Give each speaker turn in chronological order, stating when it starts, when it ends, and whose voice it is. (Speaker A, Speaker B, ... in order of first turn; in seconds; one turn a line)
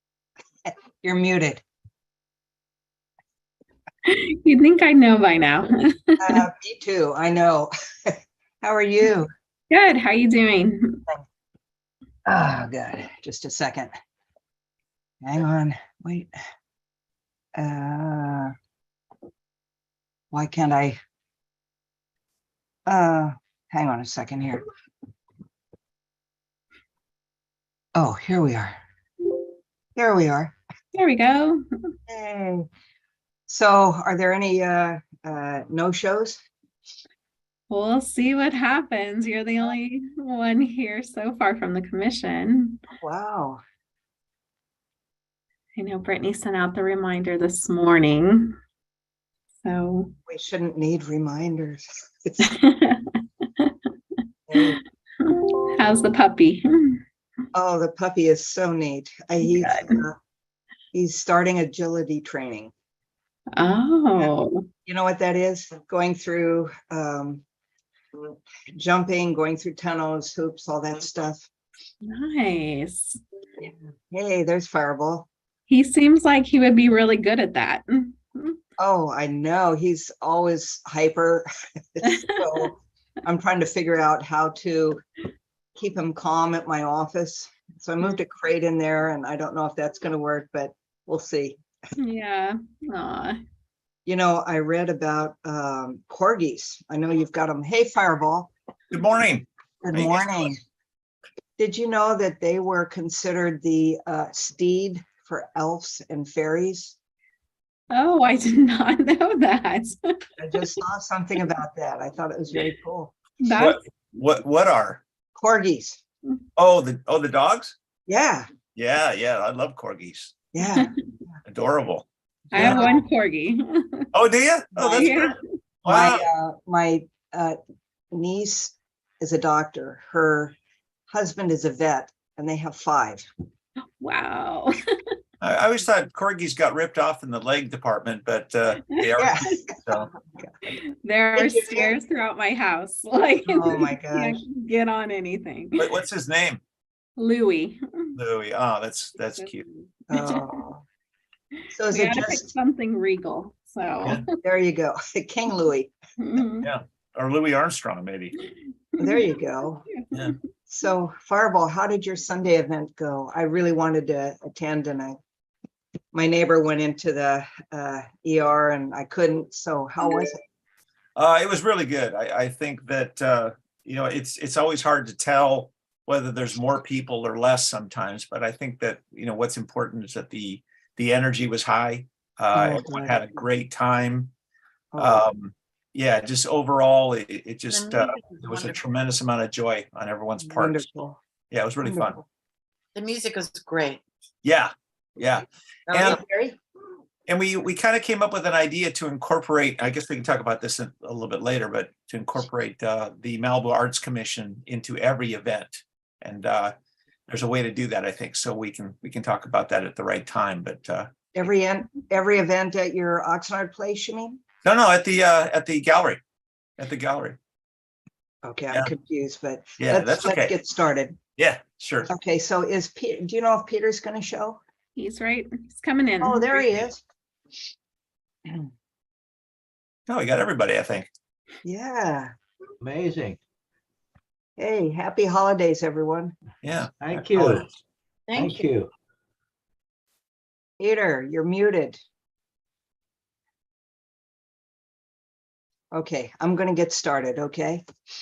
Speaker A: 0.7-1.6
Speaker B: 4.0-6.4
Speaker A: 6.2-9.3
Speaker B: 9.7-11.0
Speaker A: 12.2-13.9
Speaker A: 15.2-16.3
Speaker A: 17.6-18.5
Speaker A: 20.3-21.0
Speaker A: 22.9-24.6
Speaker A: 27.9-28.8
Speaker A: 29.9-30.5
Speaker B: 30.9-31.6
Speaker A: 32.1-32.7
Speaker A: 33.5-36.4
Speaker B: 37.7-42.8
Speaker A: 43.0-43.6
Speaker B: 45.8-48.5
Speaker B: 49.6-50.1
Speaker A: 50.3-52.5
Speaker B: 52.4-53.7
Speaker A: 54.5-54.8
Speaker B: 55.2-57.0
Speaker A: 57.5-60.1
Speaker B: 59.4-60.0
Speaker A: 60.9-62.7
Speaker B: 63.5-64.6
Speaker A: 64.8-67.4
Speaker A: 68.3-71.5
Speaker B: 72.0-73.2
Speaker A: 73.6-75.3
Speaker B: 75.7-78.6
Speaker A: 78.8-85.0
Speaker B: 82.1-82.7
Speaker A: 85.8-91.6
Speaker B: 92.0-93.4
Speaker A: 94.0-98.5
Speaker C: 98.9-100.3
Speaker A: 99.8-100.6
Speaker A: 101.6-107.0
Speaker B: 107.9-110.0
Speaker A: 110.4-113.1
Speaker B: 113.4-113.8
Speaker C: 113.5-115.0
Speaker A: 115.3-116.0
Speaker C: 116.5-117.7
Speaker A: 118.1-118.5
Speaker C: 118.8-120.3
Speaker A: 120.5-120.9
Speaker C: 121.4-122.9
Speaker B: 122.5-124.1
Speaker A: 122.5-123.0
Speaker C: 124.1-126.2
Speaker A: 124.8-125.1
Speaker B: 124.9-125.4
Speaker A: 125.8-127.6
Speaker A: 128.1-130.5
Speaker A: 131.1-133.2
Speaker B: 134.0-134.8
Speaker C: 135.4-140.1
Speaker A: 139.2-140.5
Speaker B: 140.7-145.9
Speaker A: 141.3-141.9
Speaker A: 143.4-144.4
Speaker C: 145.8-146.6
Speaker B: 147.2-148.2
Speaker C: 148.1-149.6
Speaker B: 149.3-150.6
Speaker A: 150.1-150.8
Speaker A: 151.7-152.5
Speaker B: 151.9-154.3
Speaker A: 154.4-155.9
Speaker B: 156.2-156.7
Speaker C: 156.6-158.3
Speaker A: 159.0-159.9
Speaker B: 159.9-160.3
Speaker A: 160.7-165.2
Speaker A: 166.1-170.4
Speaker C: 171.2-184.3
Speaker A: 182.5-183.2
Speaker A: 184.9-185.2
Speaker C: 185.0-190.9
Speaker D: 187.7-188.8
Speaker A: 190.4-191.2
Speaker C: 191.5-192.2
Speaker A: 191.8-192.2
Speaker D: 192.9-194.0
Speaker C: 194.4-196.2
Speaker D: 195.9-196.6
Speaker C: 197.3-206.7
Speaker C: 207.3-211.1
Speaker A: 211.3-214.4
Speaker C: 214.6-216.2
Speaker C: 216.8-217.4
Speaker A: 218.4-221.2
Speaker C: 219.8-220.5
Speaker C: 221.4-222.1
Speaker A: 222.1-224.6
Speaker B: 224.9-226.7
Speaker A: 226.2-227.0
Speaker C: 230.1-231.1
Speaker A: 231.6-232.3
Speaker E: 232.8-233.4
Speaker A: 234.6-236.3
Speaker C: 236.6-237.7
Speaker E: 237.0-237.7
Speaker D: 238.3-238.7
Speaker E: 238.3-238.9
Speaker A: 240.8-242.0
Speaker A: 245.9-247.8